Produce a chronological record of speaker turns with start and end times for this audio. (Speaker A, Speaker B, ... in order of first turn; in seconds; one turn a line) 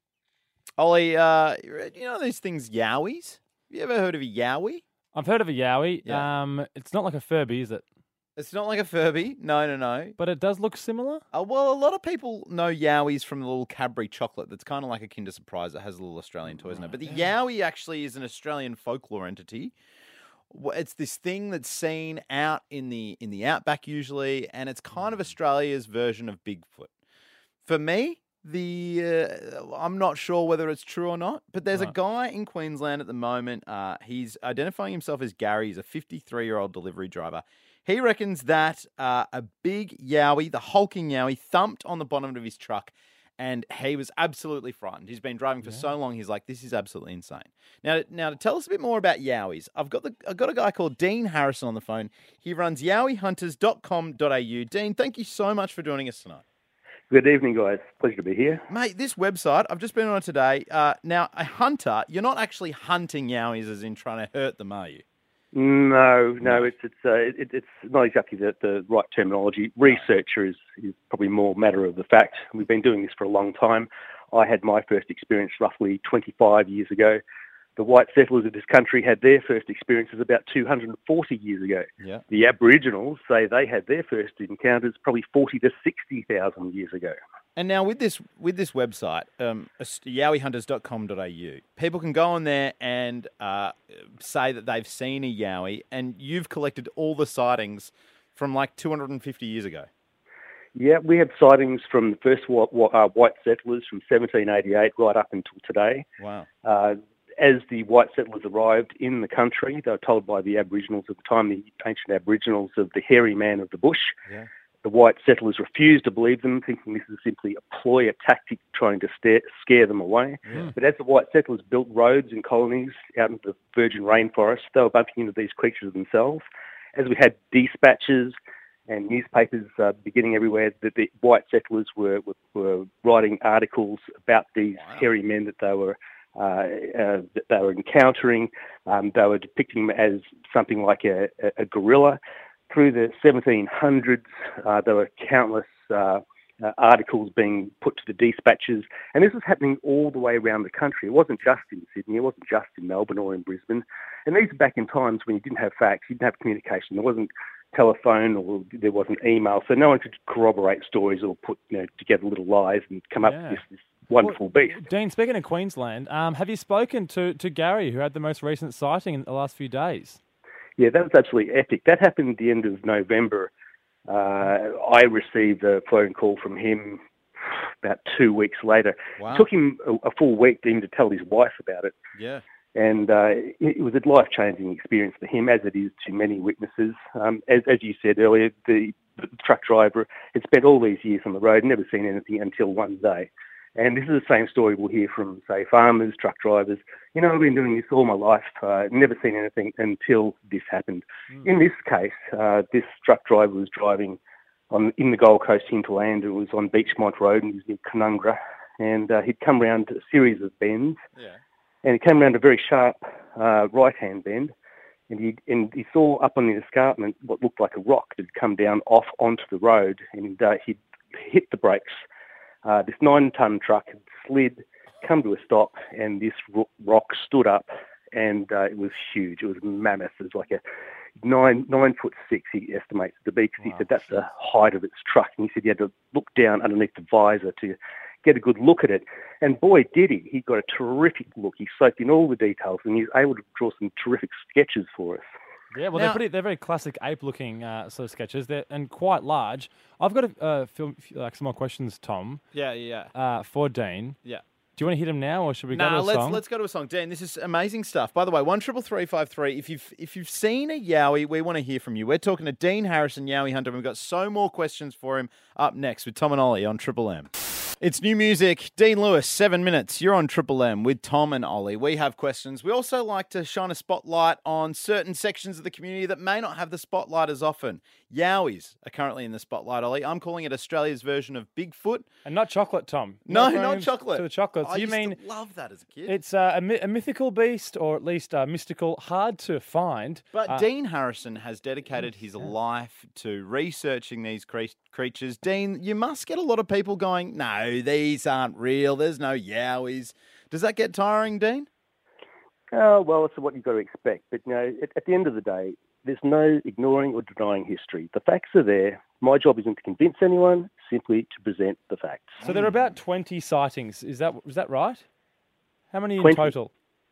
Speaker A: 0.8-4.8
Speaker B: 5.1-7.8
Speaker A: 8.4-10.1
Speaker B: 10.2-11.2
Speaker A: 11.3-19.7
Speaker A: 20.5-26.9
Speaker A: 27.6-56.4
Speaker C: 57.1-58.6
Speaker A: 58.7-65.0
Speaker C: 65.5-77.2
Speaker A: 66.4-66.7
Speaker C: 77.8-87.2
Speaker A: 87.5-99.9
Speaker C: 100.7-106.0
Speaker A: 106.2-106.5
Speaker C: 106.6-114.2
Speaker C: 114.8-128.4
Speaker A: 120.5-120.7
Speaker C: 128.9-164.8
Speaker A: 134.7-135.1
Speaker B: 163.2-163.6
Speaker B: 164.2-170.2
Speaker C: 170.8-173.5
Speaker C: 174.1-177.0
Speaker C: 177.8-182.0
Speaker A: 179.2-179.5
Speaker A: 182.2-182.4
Speaker C: 182.7-204.2
Speaker C: 204.7-211.0
Speaker C: 211.8-214.5
Speaker C: 215.1-222.0
Speaker C: 222.6-230.6
Speaker C: 231.2-245.3
Speaker A: 233.6-234.2
Speaker B: 245.7-252.4
Speaker A: 245.9-246.2
Speaker A: 252.5-253.1
Speaker B: 253.1-254.2
Speaker B: 254.8-256.4
Speaker A: 255.7-267.3
Speaker A: 267.8-282.1
Speaker B: 282.2-285.2
Speaker A: 283.2-286.2
Speaker B: 286.1-290.7
Speaker A: 290.3-301.7
Speaker C: 302.7-312.4
Speaker A: 312.4-312.9
Speaker B: 312.4-315.0
Speaker B: 315.9-316.7
Speaker C: 316.2-316.5